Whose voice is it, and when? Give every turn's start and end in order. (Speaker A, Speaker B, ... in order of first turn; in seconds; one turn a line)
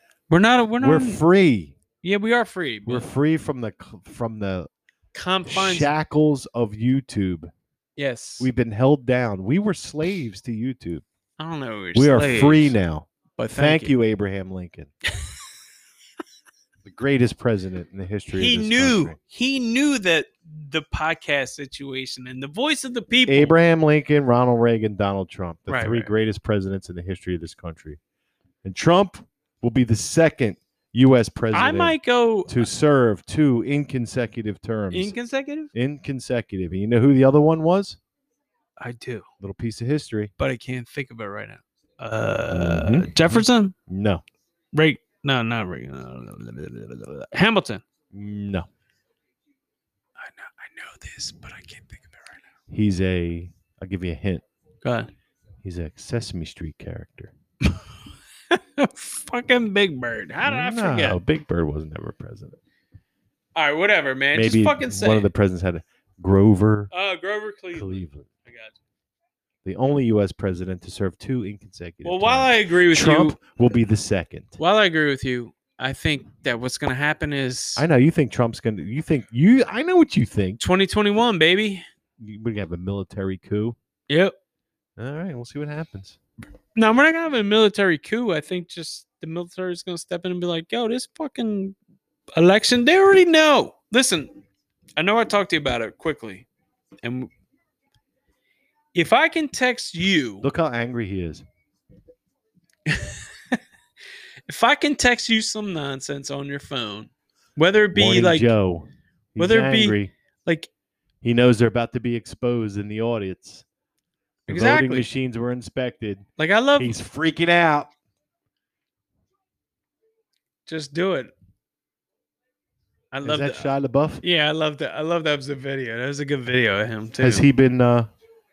Speaker A: 0.3-1.2
Speaker B: 0.8-1.7
Speaker A: 2.0-3.1
Speaker B: 2.9-4.7
Speaker A: 5.1-5.9
Speaker B: 5.5-7.5
Speaker A: 8.0-8.5
Speaker B: 8.4-11.0
Speaker A: 11.4-12.8
Speaker B: 11.9-14.9
Speaker A: 13.4-13.9
Speaker B: 16.8-19.2
Speaker A: 18.3-23.6
Speaker B: 23.3-28.0
Speaker A: 25.7-26.1
Speaker B: 28.6-35.1
Speaker A: 31.5-32.7
Speaker A: 34.9-35.7
Speaker B: 35.7-38.0
Speaker A: 38.8-39.2
Speaker B: 39.4-40.3
Speaker A: 40.4-43.7
Speaker B: 42.5-44.2
Speaker A: 44.7-47.8
Speaker B: 48.1-48.7
Speaker A: 50.2-52.3
Speaker B: 52.7-54.4
Speaker A: 54.8-55.1
Speaker B: 55.6-57.3
Speaker A: 58.5-61.2
Speaker B: 60.4-62.6
Speaker A: 63.5-65.3
Speaker B: 64.3-66.9
Speaker A: 66.9-68.8
Speaker B: 67.7-68.3
Speaker B: 69.6-74.5
Speaker A: 72.0-73.4
Speaker A: 74.6-77.8
Speaker B: 77.8-80.6
Speaker A: 80.6-81.8
Speaker B: 82.2-83.8
Speaker A: 84.1-84.3
Speaker B: 85.0-86.2
Speaker A: 86.8-91.8
Speaker A: 92.3-94.3
Speaker A: 95.0-96.5
Speaker A: 97.0-97.3
Speaker A: 98.9-100.5
Speaker B: 100.4-101.4
Speaker A: 102.8-103.6
Speaker A: 104.5-108.5
Speaker B: 107.9-110.1
Speaker A: 109.4-110.7
Speaker B: 111.2-113.6
Speaker A: 114.5-115.1
Speaker B: 114.5-116.2
Speaker A: 116.4-116.9
Speaker B: 116.8-117.9
Speaker A: 120.7-121.3
Speaker A: 123.1-127.5
Speaker B: 123.2-124.2
Speaker B: 127.2-128.1